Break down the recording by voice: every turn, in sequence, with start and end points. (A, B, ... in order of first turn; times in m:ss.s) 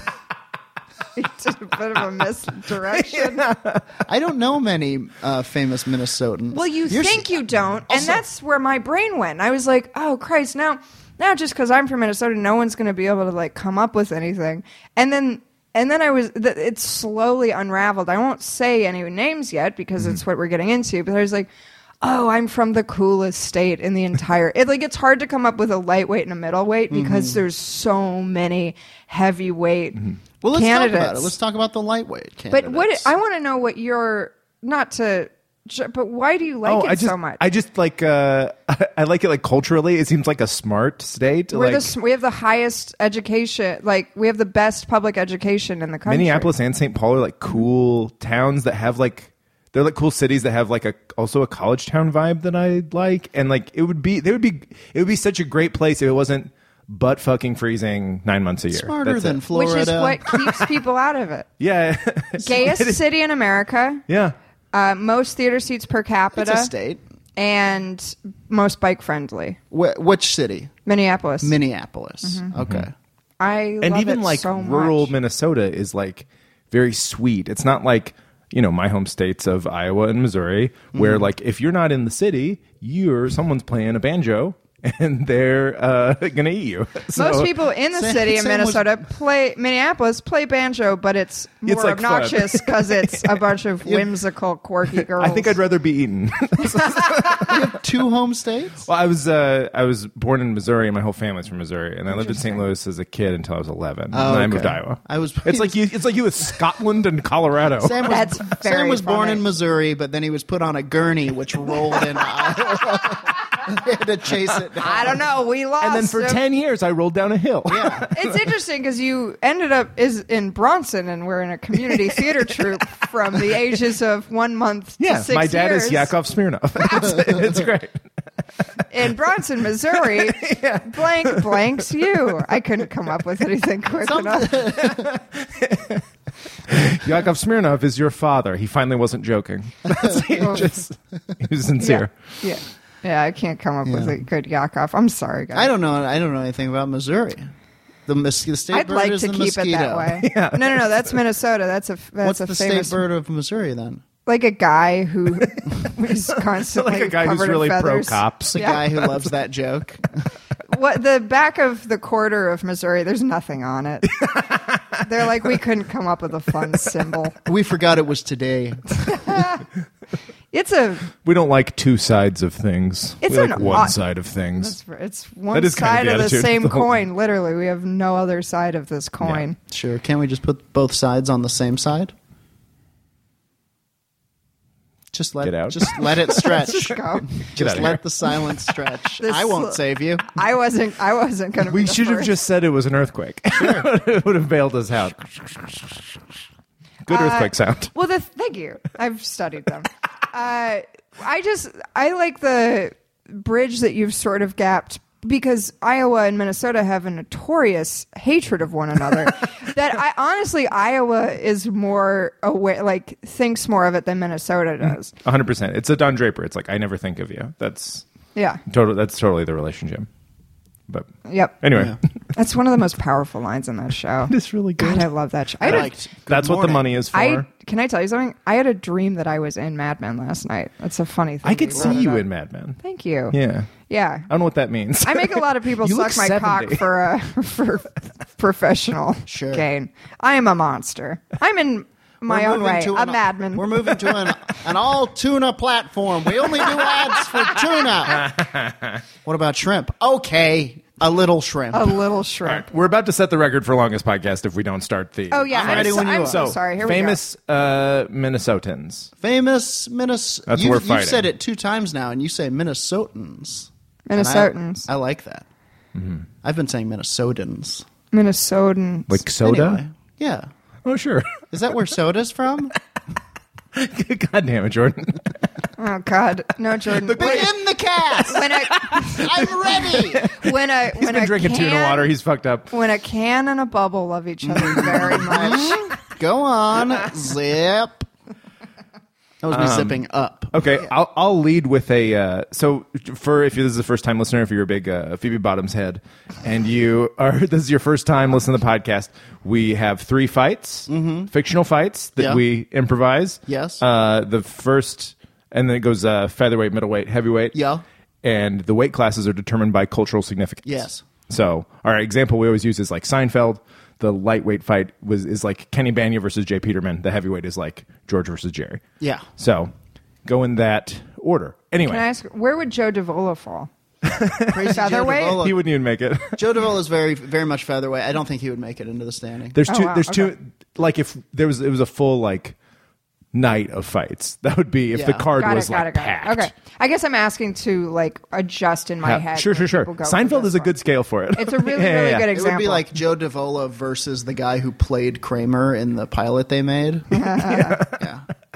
0:01.2-0:03.4 A
0:02.9-0:03.8 B
0:04.0-0:08.2 C
0:06.5-0:21.5 A
0:22.0-0:30.0 A
0:26.9-0:27.4 C
0:30.4-0:33.1 C
0:30.5-0:31.3 A
0:32.5-0:37.4 A
0:36.6-0:41.9 B
0:41.5-0:46.5 A
0:46.1-0:59.4 B
0:58.7-1:00.2 C
0:59.5-1:01.5 A
1:00.3-1:00.6 B
1:01.6-1:03.0 B
1:02.4-1:04.0 A
1:04.1-1:04.4 B
1:04.7-1:06.7 A
1:06.3-1:07.0 C
1:07.4-1:09.6 A
1:09.7-1:10.7 C
1:10.8-1:11.5 A
1:11.4-1:12.9 C
1:12.2-1:12.5 A
1:12.6-1:12.9 B
1:13.4-1:15.1 A
1:13.8-1:27.5 B
1:20.9-1:21.3 C
1:27.1-1:35.6 A
1:27.9-1:29.0 C
1:31.6-1:33.4 B
1:34.9-1:37.7 B
1:37.3-1:38.8 C
1:38.8-1:48.1 B
1:42.1-1:42.6 A
1:44.1-1:45.8 C
1:47.8-1:55.2 C
1:48.0-1:49.4 A
1:54.8-1:56.4 A
1:55.8-1:58.4 B
1:57.7-1:58.0 C
1:58.1-2:06.1 A
2:01.9-2:02.2 B
2:05.0-2:08.0 B
2:08.9-2:14.5 A
2:10.1-2:11.8 B
2:14.0-2:15.1 C
2:14.6-2:16.0 B
2:16.7-2:22.1 B
2:20.4-2:20.7 A
2:21.8-2:25.7 A
2:23.8-2:24.2 C
2:25.5-2:27.5 C
2:28.1-2:30.2 C
2:28.7-2:33.0 A
2:30.2-2:31.2 B
2:32.2-2:34.0 C
2:34.2-2:38.8 A
2:36.5-2:39.1 B
2:38.5-2:40.0 C
2:40.7-2:44.1 A
2:44.2-2:45.5 B
2:45.0-2:47.4 A
2:47.4-2:49.4 C
2:49.1-2:49.6 A
2:50.5-2:51.1 A
2:51.2-2:54.8 B
2:53.2-2:54.0 A
2:54.6-2:59.6 A
2:55.5-2:56.9 B
2:59.2-2:59.4 B
2:59.7-3:02.1 C
3:05.1-3:10.3 C
3:05.4-3:06.8 B
3:06.4-3:07.8 A
3:07.4-3:08.0 B
3:09.2-3:12.3 A
3:11.6-3:16.0 B
3:13.5-3:13.9 C
3:17.0-3:17.9 B
3:17.1-3:35.1 A
3:34.8-3:38.0 B
3:38.3-3:38.6 A
3:38.7-3:40.1 B
3:41.3-3:41.6 A
3:41.6-3:42.0 B
3:42.3-3:45.9 A
3:44.3-3:47.4 B
3:45.6-3:46.9 C
3:47.1-3:52.2 A
3:51.4-3:52.8 B
3:51.7-3:52.1 C
3:52.8-3:53.4 A
3:53.3-3:56.9 B
3:53.9-3:54.3 A
3:55.0-4:03.9 A
3:59.2-3:59.6 C
4:02.2-4:08.3 C
4:08.2-4:09.0 B
4:09.2-4:12.0 C
4:11.7-4:12.7 A
4:12.4-4:19.1 B
4:15.3-4:17.2 A
4:15.5-4:16.5 C
4:19.2-4:25.4 C
4:20.5-4:21.3 B
4:24.1-4:24.9 A
4:25.9-4:26.3 B
4:26.4-4:27.8 C
4:28.1-4:29.2 A
4:29.1-4:29.8 B
4:29.4-4:30.5 C
4:30.8-4:31.3 B
4:31.5-4:32.7 C
4:33.7-4:35.2 B
4:35.8-4:37.5 A
4:36.9-4:37.5 B
4:37.1-4:40.3 C
4:38.1-4:42.7 B
4:38.3-4:39.3 A
4:40.2-4:42.1 A
4:42.7-4:45.9 A
4:44.4-4:48.1 C
4:49.4-4:50.9 C
4:49.5-4:50.0 B
4:50.5-5:07.6 B
5:00.9-5:01.3 C
5:02.2-5:02.4 C
5:03.5-5:03.8 C
5:07.5-5:07.8 C
5:08.2-5:18.8 B
5:10.6-5:11.0 C
5:19.0-5:19.2 C
5:19.4-5:19.7 B
5:20.2-5:22.0 B
5:21.8-5:23.7 A
5:24.0-5:24.8 B
5:24.5-5:25.6 C
5:24.7-5:25.4 A
5:25.4-5:26.4 B
5:26.4-5:29.6 C
5:29.5-5:32.5 B
5:29.7-5:30.3 A
5:33.3-5:36.5 B
5:34.9-5:35.3 C
5:35.4-5:40.7 A
5:39.0-5:42.3 B
5:41.3-5:42.8 A
5:42.3-5:47.2 C
5:47.1-5:47.8 A
5:47.3-5:48.0 B
5:48.0-5:48.2 C